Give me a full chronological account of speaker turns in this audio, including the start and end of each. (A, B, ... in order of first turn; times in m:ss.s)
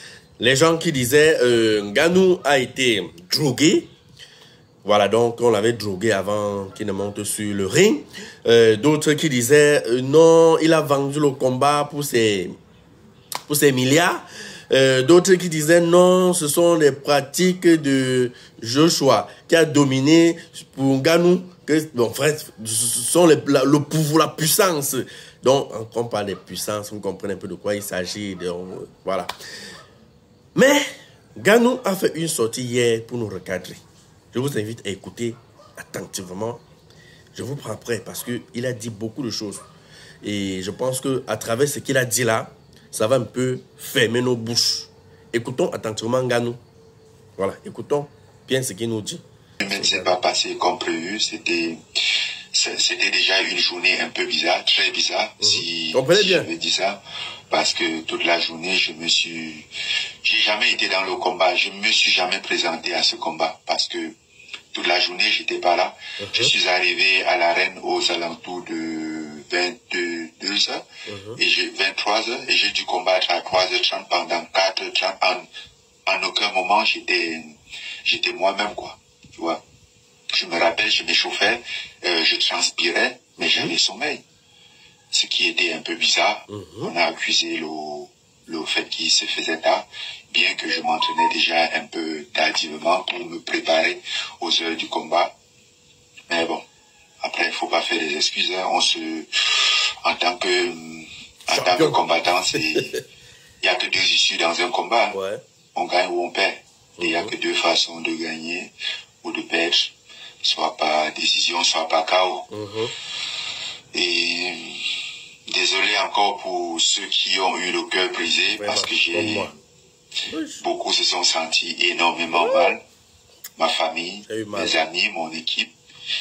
0:00.4-0:03.9 A
0:04.8-0:12.5 A
0:13.5-0:29.3 A
0:30.6-0:30.8 A
0:31.4-0:33.8 A
0:34.3-0:36.6 A
0:37.3-0:39.6 A
0:40.2-0:46.6 A
0:47.4-0:50.2 A
0:49.6-0:51.8 B
0:52.5-0:59.7 B
0:55.4-0:56.5 A
1:00.2-1:04.2 B
1:04.7-1:10.8 B
1:06.2-1:06.5 A
1:11.1-1:11.4 A
1:11.4-1:15.5 B
1:16.1-1:19.6 B
1:20.3-1:24.2 B
1:23.4-1:23.8 A
1:25.1-1:35.3 B
1:26.5-1:26.9 A
1:36.3-1:36.6 B
1:37.2-1:42.9 B
1:41.5-1:42.0 A
1:43.6-1:45.2 B
1:45.1-1:45.4 A
1:45.8-1:52.5 B
1:47.0-1:47.3 A
1:52.5-1:52.9 A
1:53.9-1:54.8 B
1:55.5-1:59.6 B
1:58.5-1:59.6 A
2:00.2-2:00.7 A
2:00.6-2:02.8 B
2:03.6-2:05.7 B
2:04.2-2:04.8 A